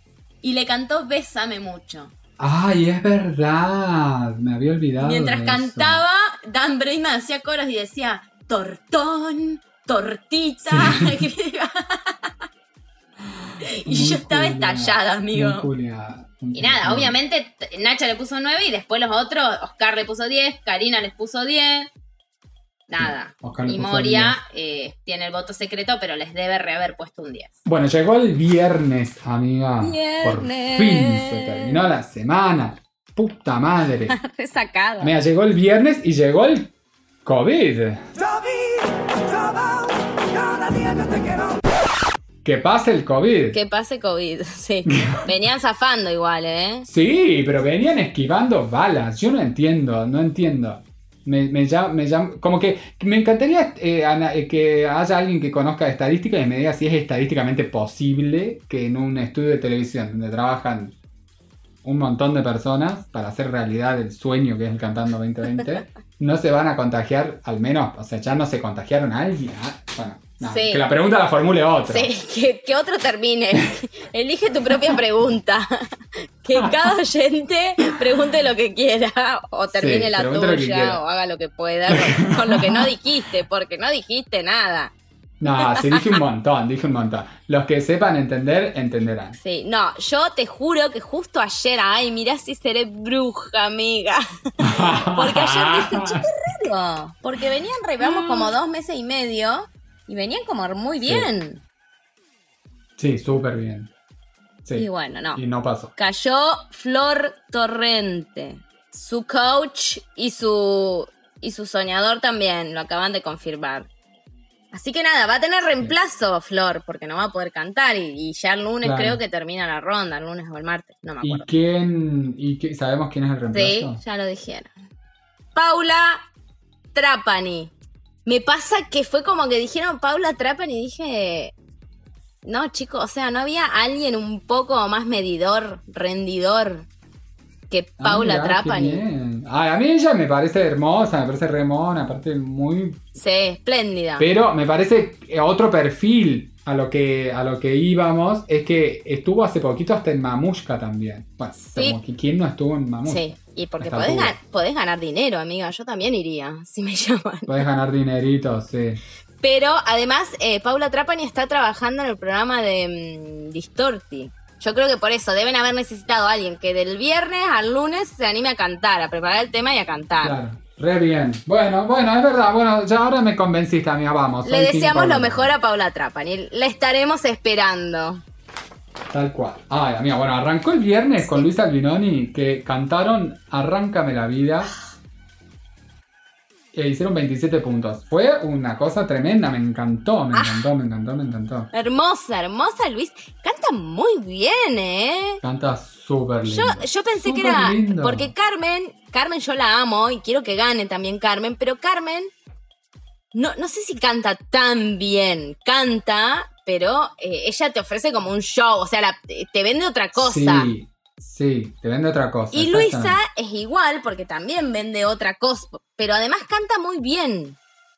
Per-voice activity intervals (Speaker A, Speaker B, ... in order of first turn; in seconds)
Speaker A: 0.4-2.1, 5.0-12.3, 13.8-15.7, 16.5-21.9, 22.9-27.6, 29.8-31.7, 34.1-35.1, 43.5-46.9, 70.4-70.8, 71.9-75.7, 76.4-84.9, 85.5-86.0, 89.3-101.6, 104.8-105.4, 106.0-113.9, 114.7-121.5, 123.5-124.7, 125.5-126.2, 126.9-127.7, 128.2-131.5, 132.4-136.9, 137.7-139.0, 143.2-144.3, 153.0-157.6, 159.4-170.4, 174.4-178.2, 181.2-181.5, 190.3-190.7, 191.7-195.4, 196.4-202.3, 203.3-210.7, 212.5-217.6
Speaker B: 2.4-6.0, 10.6-11.2, 13.4-17.1, 23.0-24.4, 27.6-34.1, 35.0-36.7, 37.2-38.7, 40.5-41.2, 42.4-43.6, 44.9-45.2, 46.9-61.0, 61.8-72.1, 79.7-81.0, 81.9-82.9, 85.4-89.4, 94.6-96.2, 98.0-98.5, 101.0-101.3, 103.0-103.9, 104.6-105.9, 118.8-119.2, 121.2-124.0, 138.0-143.1, 144.2-154.3, 157.5-159.0, 170.2-175.5, 179.1-184.7, 186.7-191.7, 195.4-198.3, 210.1-213.2